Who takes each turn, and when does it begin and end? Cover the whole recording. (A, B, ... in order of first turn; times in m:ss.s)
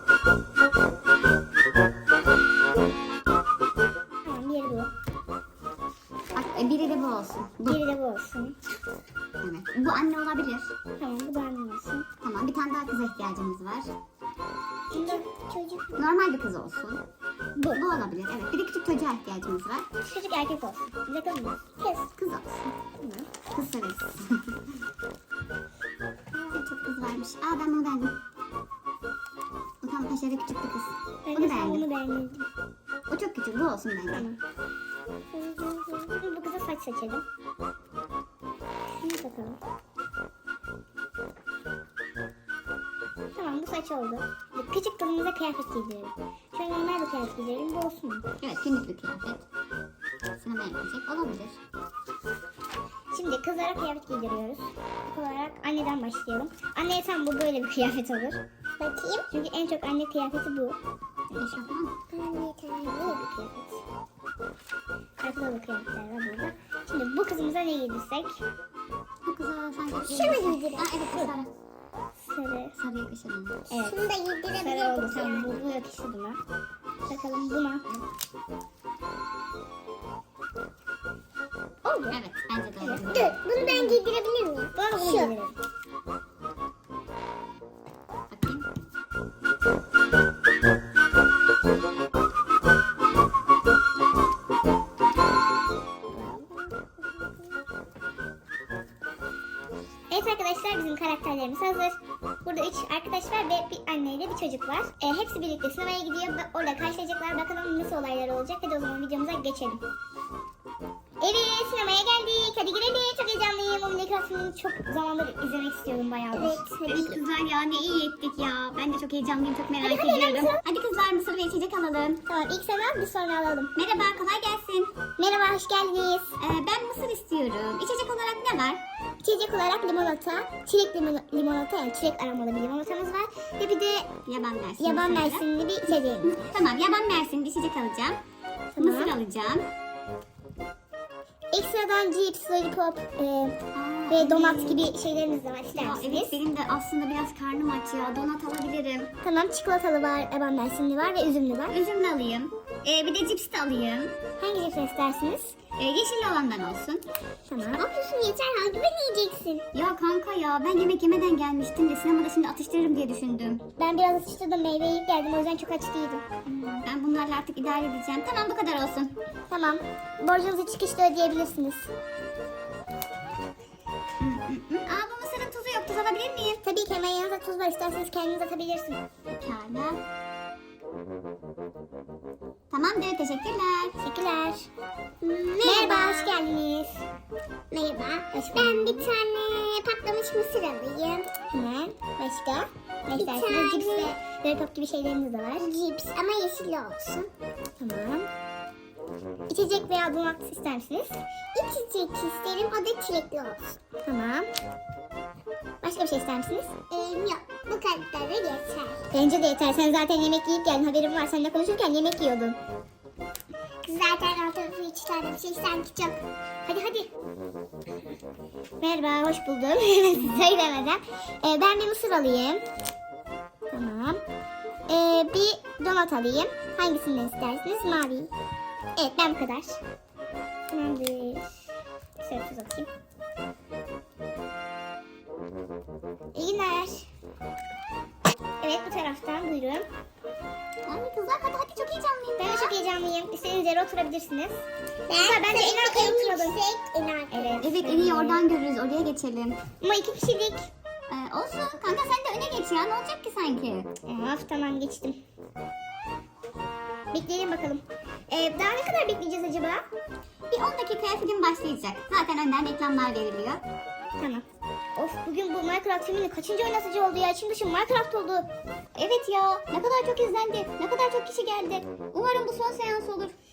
0:04.2-0:04.9 A
0:06.3-0:07.8 B
0:07.7-0:08.6 A
0:09.4-0:10.7 B
0:11.0-0:12.1 A
0:12.2-0:13.9 B
0:14.9-0:15.8 A
0:15.1-0:15.8 C
0:16.0-0:17.0 B
0:17.6-0:19.9 B
0:20.1-0:21.8 A
0:22.2-0:22.8 B
0:23.0-0:23.3 A
0:23.5-0:24.6 B
0:26.5-0:28.2 B
0:29.8-0:31.8 B
0:31.3-0:32.5 A
0:33.1-0:34.3 B
0:34.1-0:34.4 A
0:35.3-0:37.2 A
0:39.0-0:39.6 A
0:43.4-0:48.2 A
0:48.4-0:49.4 B
0:50.4-0:51.6 B
0:53.1-0:58.4 A
0:58.8-0:59.3 C
0:59.3-1:00.8 A
1:01.3-1:02.0 B
1:02.1-1:03.2 C
1:02.8-1:03.8 A
1:05.2-1:08.4 A
1:09.2-1:11.5 B
1:10.1-1:10.9 C
1:11.0-1:11.3 A
1:12.3-1:12.8 A
1:12.8-1:13.7 B
1:13.7-1:14.0 A
1:13.8-1:15.5 C
1:14.6-1:16.4 A
1:17.0-1:17.9 A
1:21.8-1:22.2 A
1:22.1-1:23.4 B
1:23.1-1:25.3 C
1:23.6-1:24.0 A
1:24.8-1:25.6 A
1:28.3-1:28.7 B
1:36.2-1:36.5 A
1:40.1-1:49.8 A
1:51.2-1:56.7 A
1:56.3-1:57.2 C
1:56.8-2:02.2 B
1:59.8-2:00.6 A
2:02.3-2:03.7 A
2:03.8-2:04.9 B
2:05.2-2:06.4 A
2:06.4-2:08.8 B
2:09.2-2:14.1 A
2:14.3-2:15.4 B
2:14.8-2:16.4 A
2:16.2-2:18.2 B
2:18.8-2:19.2 A
2:18.8-2:19.7 B
2:21.5-2:23.6 A
2:23.7-2:24.8 B
2:24.1-2:26.4 A
2:25.8-2:29.1 B
2:29.2-2:31.8 A
2:31.7-2:34.2 B
2:34.4-2:35.6 A
2:35.8-2:37.0 B
2:37.5-2:37.9 A
2:37.6-2:39.6 C
2:39.7-2:43.6 B
2:43.8-2:46.2 A
2:46.4-2:49.2 B
2:49.5-2:51.9 A
2:54.2-2:56.6 B
2:56.6-2:59.0 A
2:59.3-3:00.0 B
3:02.7-3:04.0 B
3:04.0-3:04.7 A
3:05.2-3:06.3 C
3:05.6-3:07.0 A
3:07.7-3:11.3 C
3:08.3-3:09.1 A
3:11.5-3:15.7 A
3:13.1-3:14.2 C
3:15.6-3:17.3 C
3:17.8-3:18.3 A
3:19.5-3:21.2 A
3:21.5-3:23.6 C
3:24.0-3:24.5 A
3:25.8-3:26.8 A
3:26.9-3:29.0 C
3:29.1-3:32.6 A
3:33.8-3:36.2 C
3:36.7-3:37.1 A
3:38.8-3:42.6 A
3:40.2-3:40.4 B
3:43.7-3:44.2 A
3:44.9-3:48.3 A
3:49.0-3:49.8 A
3:50.7-3:51.6 A
3:52.2-3:52.9 A
3:56.3-3:57.1 A
3:58.6-3:59.9 A
4:00.9-4:02.8 B
4:02.4-4:04.6 A
4:05.1-4:07.7 C
4:05.2-4:06.6 A
4:07.3-4:08.4 A
4:07.6-4:09.6 B
4:09.8-4:10.7 A
4:11.1-4:13.9 B
4:14.0-4:15.2 A
4:17.1-4:19.8 A
4:20.5-4:23.6 B
4:24.2-4:24.4 A
4:25.0-4:28.5 A
4:29.0-4:33.4 B